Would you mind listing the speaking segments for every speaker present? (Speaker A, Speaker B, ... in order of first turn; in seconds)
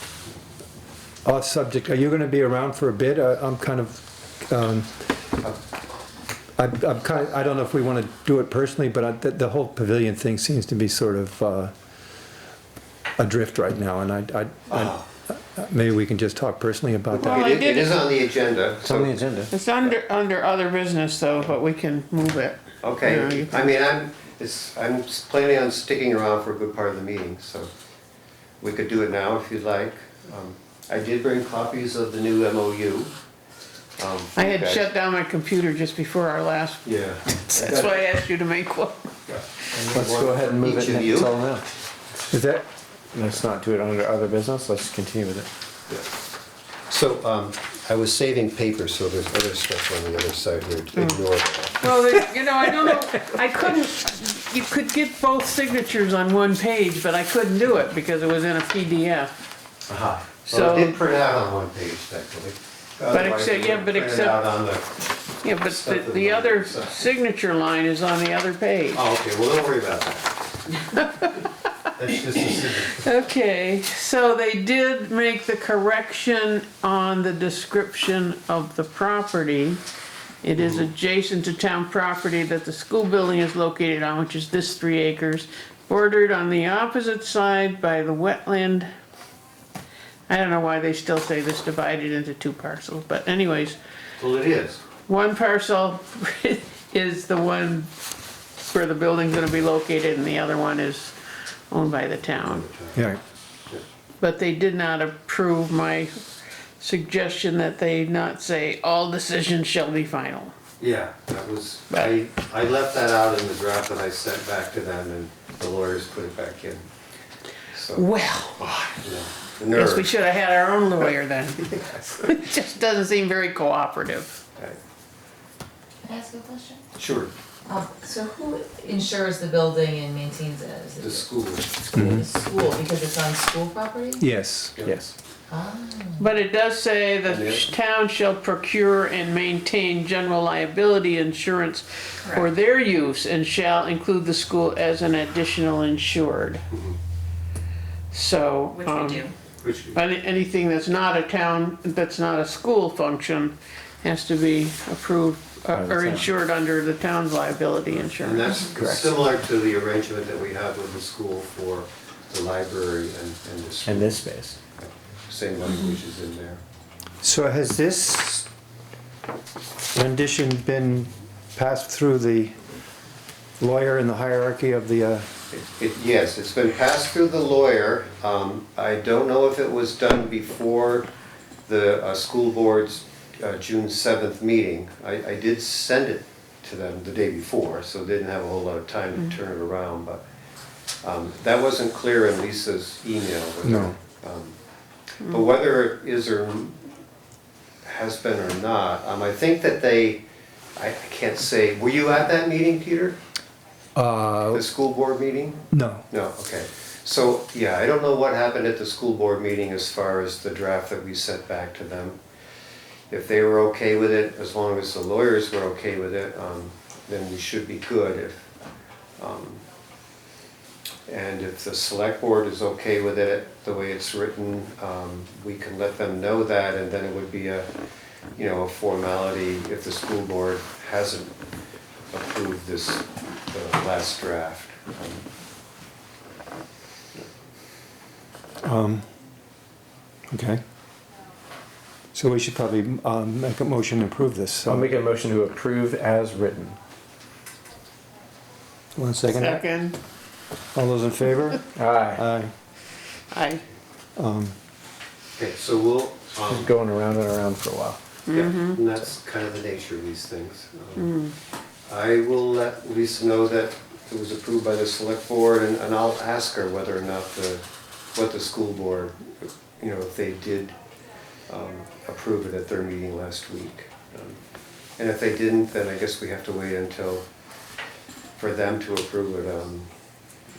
Speaker A: 1.2-5.0, 6.6-11.7, 13.2-17.6, 42.3-42.6, 103.0-103.2, 131.9-132.3, 134.2-134.8, 167.2-168.5, 169.9-172.6, 173.6-175.3, 193.6-193.9, 204.0-204.7, 205.7-206.1, 238.6-239.1, 240.3-240.6, 242.1-245.0, 249.0-249.6, 250.7-252.5, 254.2-254.6
Speaker B: 14.7-15.1, 17.1-20.0, 22.8-27.7, 28.6-33.1, 34.0-34.9, 36.8-38.0, 39.3-41.4, 46.9-51.9, 59.9-65.1, 65.6-67.0, 68.9-70.4, 72.0-73.1, 80.6-80.9, 94.2-94.8, 102.4-103.0, 110.8-116.8, 117.7-120.1, 121.7-122.1, 127.0-127.3, 131.0-132.2, 137.3-137.7, 146.7-147.0, 149.6-150.0, 158.2-164.2, 164.8-166.6, 175.5-181.1, 181.7-190.2, 191.0-194.6, 195.2-196.8, 197.8-200.2, 200.8-203.2, 204.5-205.6, 206.1-212.2, 213.1-218.5, 219.2-219.6, 221.1-227.7, 228.4-231.3, 232.1-235.2, 255.4-256.7, 258.3-261.1, 261.9-269.1, 269.8-270.8, 271.5-274.4, 275.0-277.2, 278.4-279.9
Speaker C: 17.2-18.0, 19.5-23.7, 34.4-39.1, 51.8-59.3, 60.5-61.0, 63.1-64.4, 65.4-69.0, 70.9-71.5, 72.6-79.8, 80.4-88.9, 90.3-93.8, 95.1-97.9, 98.6-101.2, 101.7-102.7, 104.2-106.2, 106.8-110.5, 117.9-118.6, 119.7-124.4, 136.2-146.7, 148.1-149.3, 149.9-158.7, 249.2-250.0, 253.3-253.6, 258.3-258.8, 261.0-261.3
Speaker D: 18.9-19.5, 39.9-41.7, 43.1-45.5, 134.8-135.1, 155.7-156.3, 158.7-159.1, 163.8-164.6, 244.7-246.8, 251.8-252.2, 256.5-258.0
Speaker E: 126.0-126.8, 127.7-131.3, 132.0-134.2, 135.5-136.3